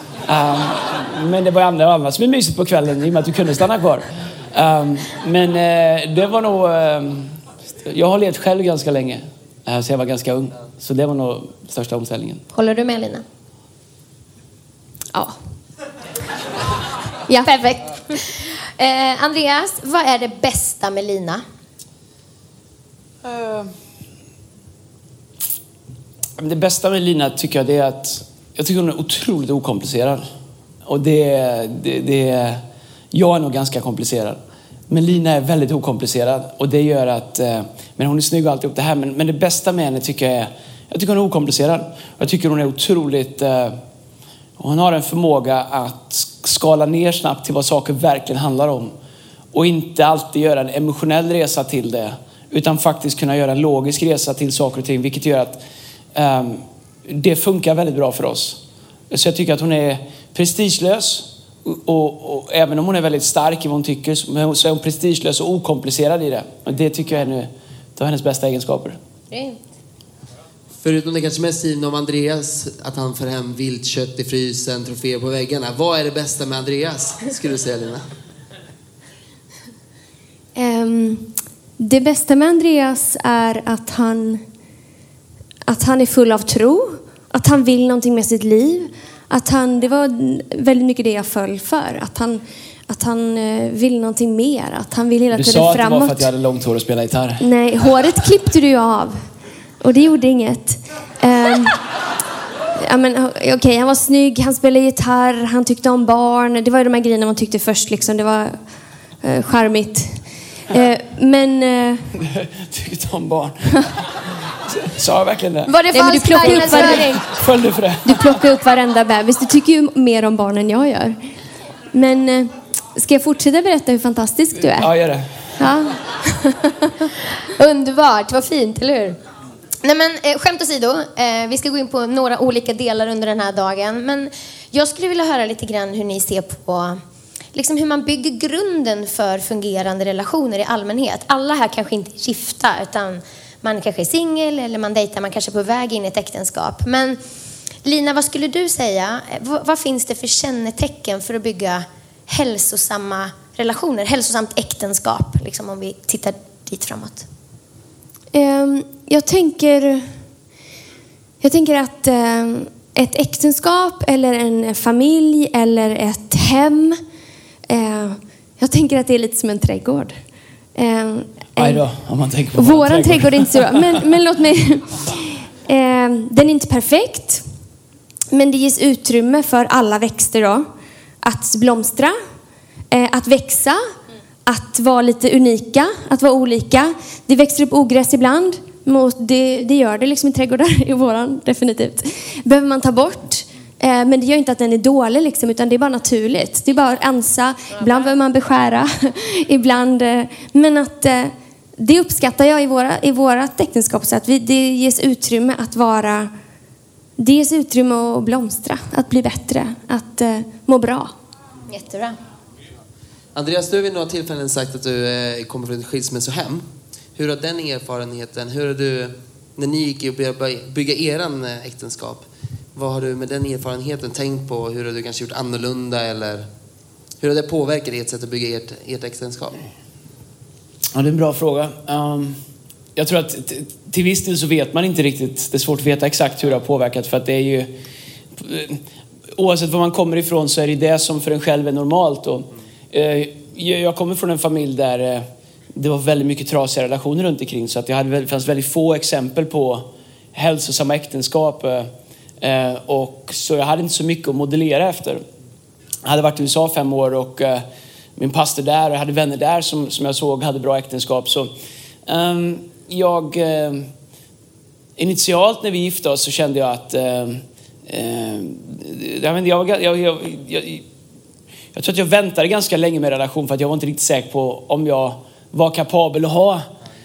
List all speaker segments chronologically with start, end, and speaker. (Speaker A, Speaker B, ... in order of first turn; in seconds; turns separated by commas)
Speaker A: 0.3-12.4, Speaker B: 12.5-13.2, Speaker B: 17.4-21.4, Speaker A: 23.2-23.7, Speaker A: 26.4-30.3, Speaker A: 30.9-32.6, Speaker A: 33.1-43.8, Speaker A: 44.6-48.9, Speaker A: 49.5-55.6, Speaker A: 56.1-58.6, Speaker A: 59.1-69.0, Speaker B: 69.3-69.6, Speaker C: 70.8-78.0, Speaker D: 80.6-84.4, Speaker D: 85.7-96.3, Speaker A: 95.3-97.5, Speaker D: 97.4-99.2, Speaker D: 99.8-101.8, Speaker D: 102.8-108.6, Speaker D: 109.2-112.1, Speaker A: 112.2-113.9, Speaker A: 114.7-115.7, Speaker B: 115.7-117.2, Speaker D: 115.9-117.2, Speaker A: 116.4-118.4, Speaker D: 118.0-121.2, Speaker D: 121.9-124.9, Speaker A: 124.7-125.3, Speaker D: 125.6-126.9, Speaker B: 127.5-129.2, Speaker B: 129.8-137.0, Speaker B: 137.5-147.2, Speaker B: 147.8-157.3, Speaker D: 158.3-160.1, Speaker D: 161.4-167.0, Speaker D: 167.7-170.2, Speaker D: 170.8-171.8, Speaker A: 171.6-174.0, Speaker D: 172.5-177.4, Speaker D: 178.3-180.7, Speaker D: 181.2-182.2, Speaker D: 182.9-183.8, Speaker D: 184.4-206.3, Speaker D: 207.2-211.1, Speaker B: 211.7-212.2, Speaker C: 213.3-216.6, Speaker C: 217.2-226.4, Speaker C: 227.2-229.6, Speaker A: 230.9-232.4, Speaker A: 233.0-237.7, Speaker A: 238.4-238.8, Speaker A: 239.3-251.9, Speaker A: 252.4-255.2, Speaker A: 256.0-257.6, Speaker A: 258.2-261.5, Speaker A: 262.1-263.9, Speaker A: 265.0-270.8, Speaker A: 271.7-276.7